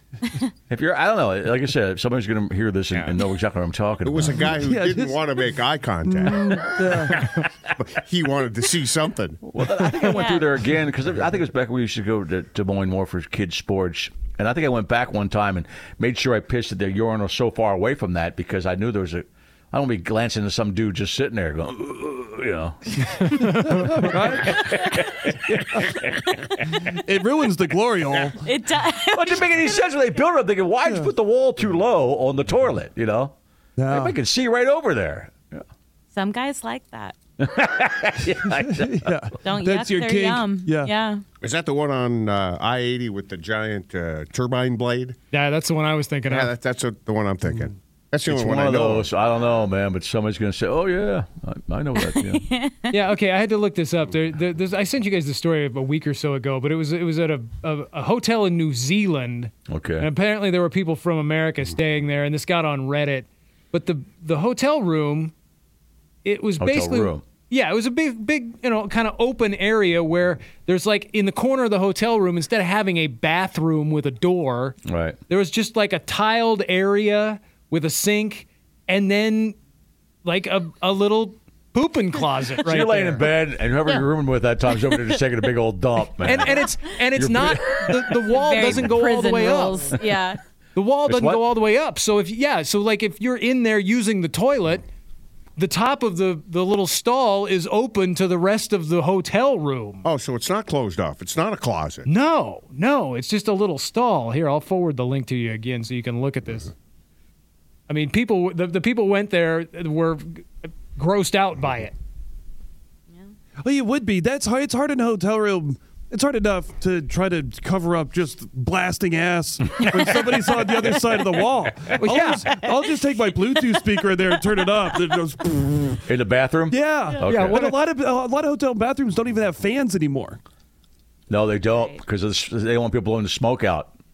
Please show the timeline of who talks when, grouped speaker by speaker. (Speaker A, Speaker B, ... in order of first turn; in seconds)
Speaker A: 0.7-4.6, 7.0-7.4, 9.4-26.3, 29.1-33.4, 33.9-35.6, 37.4-39.1, 48.3-52.4, 59.7-60.1, 66.6-67.2, 74.9-75.2, 82.7-88.1, 88.7-88.9, 91.1-91.4, 126.1-127.6, 131.3-133.9
Speaker B: 4.0-6.3, 7.8-9.4, 41.4-45.2, 46.3-49.1, 100.0-102.1
Speaker C: 4.3-5.5, 6.0-7.3, 23.4-24.8, 26.9-28.5, 30.9-31.1, 33.8-34.2, 38.8-41.0, 113.6-126.0, 126.7-130.4
Speaker D: 10.0-10.5, 28.4-29.7, 36.1-37.1, 39.4-41.2, 52.0-53.0, 88.3-90.4, 131.7-131.9
Speaker E: 45.3-46.5, 52.9-65.3, 66.2-74.8, 75.3-79.6, 80.2-83.3, 86.2-90.0, 90.8-94.8, 95.6-100.0, 102.1-106.7, 107.9-112.0, 122.0-122.5, 127.2-127.8